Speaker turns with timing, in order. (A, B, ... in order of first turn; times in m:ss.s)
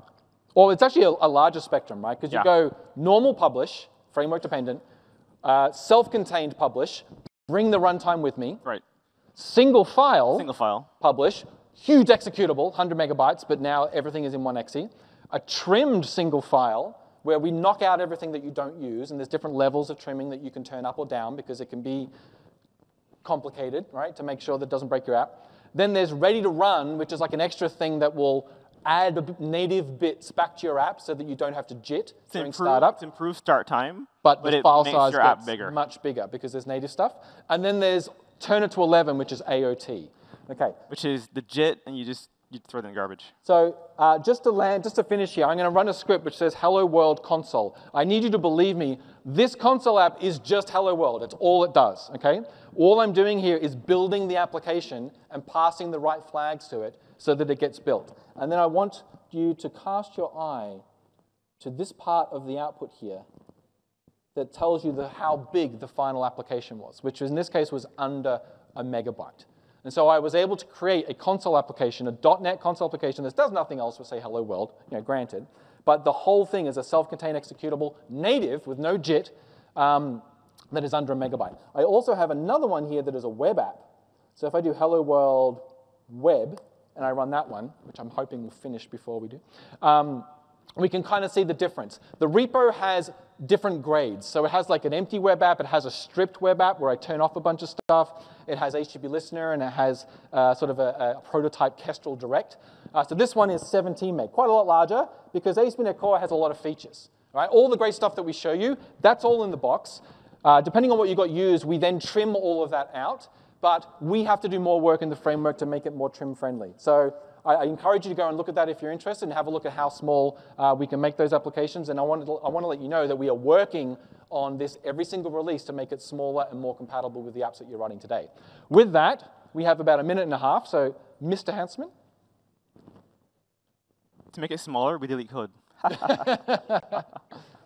0:00.5-0:04.8 A
0:05.4-0:08.6 A
0:09.4-0:10.5 A
0:10.3-0:10.9 B
0:11.0-0:22.1 A
0:23.2-0:33.0 A
0:32.3-0:35.7 B
0:34.2-0:40.8 A
0:40.9-0:43.3 B
0:43.4-1:00.8 A
1:01.6-1:03.2 A
1:04.3-2:11.9 A
2:14.3-2:16.4 B
2:15.9-2:17.0 A